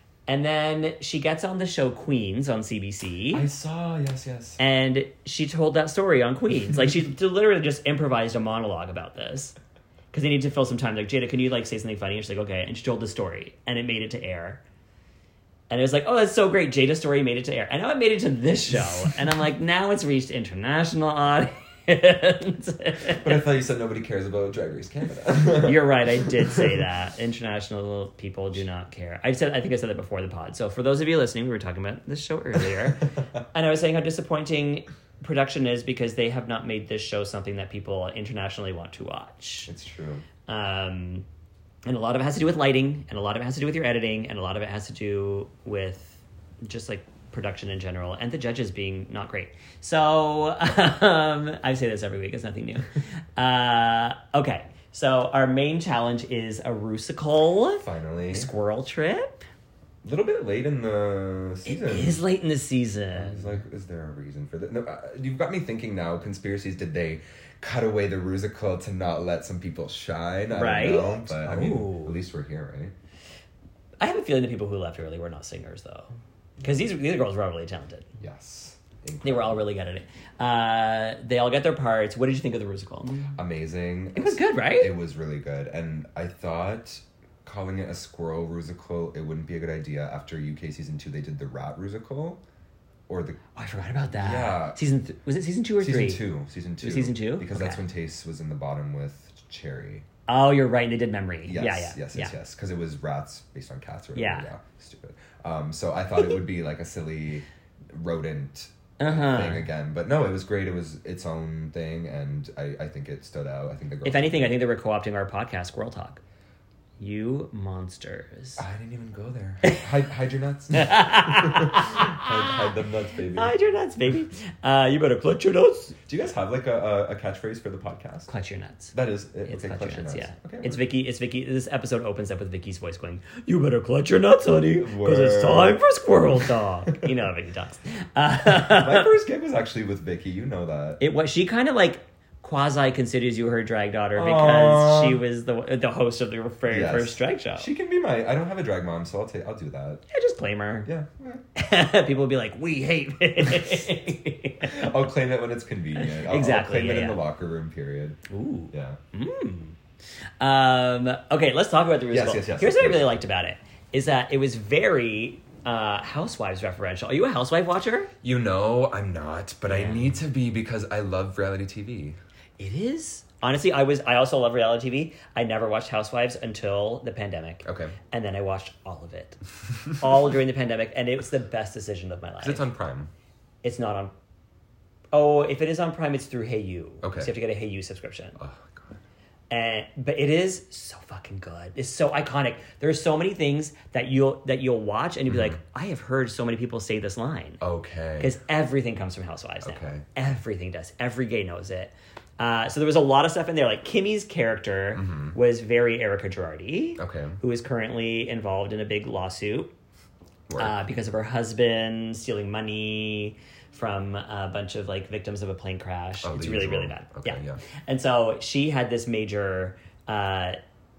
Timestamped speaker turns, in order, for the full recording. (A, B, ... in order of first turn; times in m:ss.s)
0:00.3-0:03.4 A
0:03.3-0:04.6 B
0:04.6-0:09.5 A
0:10.1-0:14.6 A
0:15.7-0:23.4 A
0:23.1-0:26.8 B
0:25.6-0:39.7 A
0:33.1-0:33.4 B
0:39.7-0:40.2 B
0:40.5-0:41.2 A
0:41.8-0:59.4 A
0:57.8-0:58.5 B
1:00.0-1:02.2 B
1:01.6-1:03.6 A
1:03.1-1:12.9 B
1:10.5-1:12.2 A
1:14.0-1:18.1 A
1:16.6-1:16.9 B
1:18.2-1:19.6 B
1:19.2-1:23.4 A
1:23.3-1:32.4 B
1:24.1-1:24.9 A
1:33.1-1:33.4 B
1:33.5-1:36.2 A
1:34.1-1:34.8 B
1:35.8-1:40.0 B
1:36.8-1:37.8 A
1:40.3-1:42.3 A
1:41.4-1:54.6 B
1:44.1-1:44.5 A
1:49.0-1:49.7 A
1:54.0-1:56.2 A
1:57.0-1:58.6 A
1:58.6-2:03.5 B
2:00.7-2:02.5 A
2:03.3-2:06.0 A
2:06.0-2:08.3 B
2:08.3-2:08.9 A
2:08.9-2:10.8 B
2:09.4-2:19.1 A
2:14.8-2:15.8 B
2:18.5-2:21.0 B
2:21.0-2:27.7 A
2:24.1-2:25.2 B
2:26.7-2:30.0 B
2:30.1-2:30.9 A
2:30.8-2:31.4 B
2:31.6-2:34.9 A
2:33.4-2:33.9 B
2:34.6-2:38.2 B
2:35.9-2:37.2 A
2:38.3-2:39.8 A
2:38.7-2:39.0 B
2:40.4-2:48.1 A
2:42.1-2:43.1 B
2:48.2-2:52.2 B
2:49.7-2:50.1 A
2:52.6-2:59.4 A
2:57.6-2:58.0 B
2:59.9-3:02.7 A
3:02.4-3:03.1 B
3:03.6-3:04.1 A
3:05.1-3:08.4 A
3:07.0-3:07.3 B
3:08.4-3:09.0 B
3:09.5-3:17.6 A
3:15.3-3:15.6 B
3:17.6-3:18.3 B
3:18.2-3:29.7 A
3:19.6-3:20.0 B
3:24.9-3:25.4 B
3:27.0-3:27.4 B
3:30.5-3:30.8 B
3:30.6-3:40.6 A
3:36.2-3:37.6 B